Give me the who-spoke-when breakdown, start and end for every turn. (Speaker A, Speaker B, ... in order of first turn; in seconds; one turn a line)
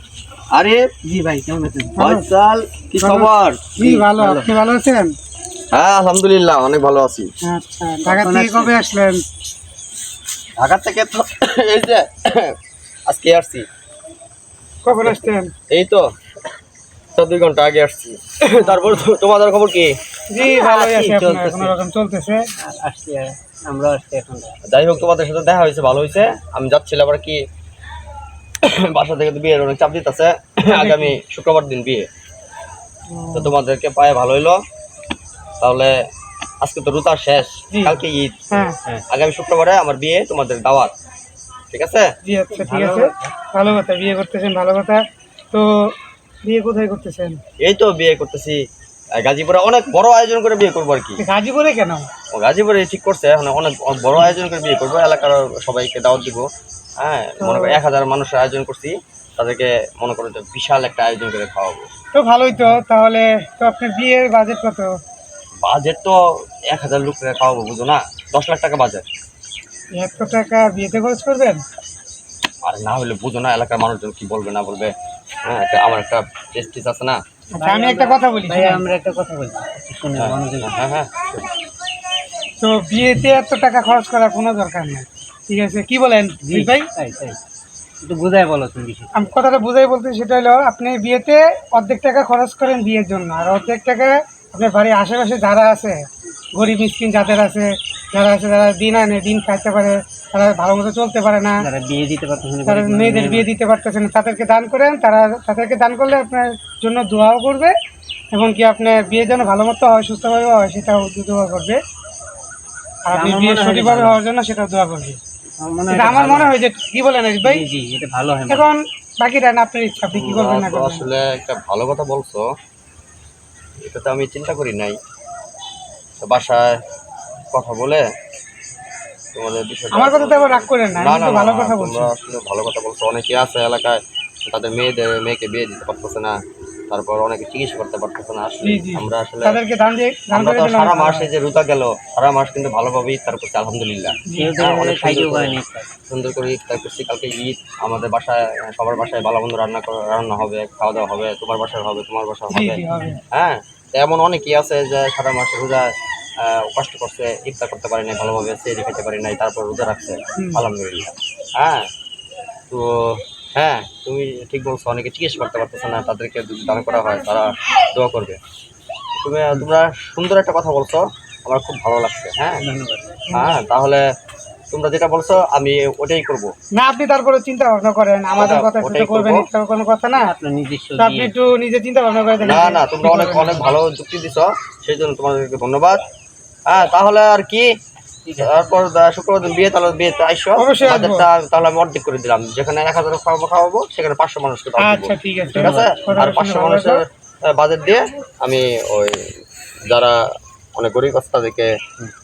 Speaker A: 0.5-0.9
Speaker B: 1.1-2.0
Speaker C: 2.0-2.3
Speaker A: 2.0-3.7
Speaker C: 3.0-5.2
Speaker B: 3.8-4.5
Speaker A: 5.7-7.3
Speaker C: 7.5-9.2
Speaker B: 8.1-8.7
Speaker A: 10.6-12.6
Speaker A: 13.1-13.7
Speaker C: 14.8-15.5
Speaker A: 15.7-16.1
Speaker A: 17.2-19.9
Speaker C: 20.3-22.5
Speaker B: 20.4-21.7
Speaker B: 22.6-24.6
Speaker A: 24.7-27.4
Speaker A: 28.6-32.1
Speaker C: 30.6-31.1
Speaker C: 33.1-33.5
Speaker A: 33.3-34.6
Speaker A: 35.6-36.0
Speaker A: 36.6-40.9
Speaker C: 37.7-38.0
Speaker A: 41.7-42.1
Speaker C: 42.2-45.0
Speaker B: 42.5-43.3
Speaker C: 46.5-47.4
Speaker A: 47.6-48.6
Speaker A: 49.2-51.2
Speaker C: 51.2-52.1
Speaker A: 52.3-56.5
Speaker A: 57.0-61.9
Speaker C: 57.4-57.8
Speaker C: 62.1-64.9
Speaker A: 65.6-66.2
Speaker A: 66.7-69.0
Speaker C: 70.0-71.6
Speaker A: 72.7-74.9
Speaker A: 75.4-77.2
Speaker B: 77.6-80.7
Speaker C: 77.6-78.8
Speaker A: 80.2-81.5
Speaker C: 82.6-86.9
Speaker B: 86.4-87.4
Speaker B: 88.0-89.1
Speaker C: 89.1-96.0
Speaker C: 96.6-101.6
Speaker B: 101.6-103.5
Speaker C: 102.7-107.7
Speaker C: 108.3-111.8
Speaker C: 113.1-115.2
Speaker B: 113.1-114.2
Speaker B: 115.6-116.5
Speaker C: 115.9-117.6
Speaker B: 117.4-118.7
Speaker C: 118.5-121.1
Speaker A: 120.1-122.5
Speaker A: 123.8-125.0
Speaker A: 126.2-126.8
Speaker A: 127.5-128.1
Speaker A: 129.3-136.3
Speaker C: 129.9-132.1
Speaker A: 136.9-139.6
Speaker C: 138.6-141.3
Speaker A: 140.3-145.6
Speaker C: 144.3-144.6
Speaker B: 144.3-145.9
Speaker A: 146.1-161.9
Speaker C: 152.5-153.2
Speaker C: 160.4-160.7
Speaker A: 162.7-168.4
Speaker A: 169.2-172.6
Speaker B: 172.6-173.2
Speaker C: 173.3-173.6
Speaker A: 173.3-174.0
Speaker A: 174.7-176.5
Speaker C: 176.8-180.3
Speaker A: 178.4-179.5
Speaker B: 180.2-181.3
Speaker C: 181.0-183.7
Speaker A: 182.4-186.0
Speaker A: 186.7-187.7
Speaker B: 188.3-188.7
Speaker A: 188.4-199.4
Speaker C: 190.6-191.3
Speaker C: 194.8-197.0
Speaker A: 199.9-200.2
Speaker A: 200.8-201.7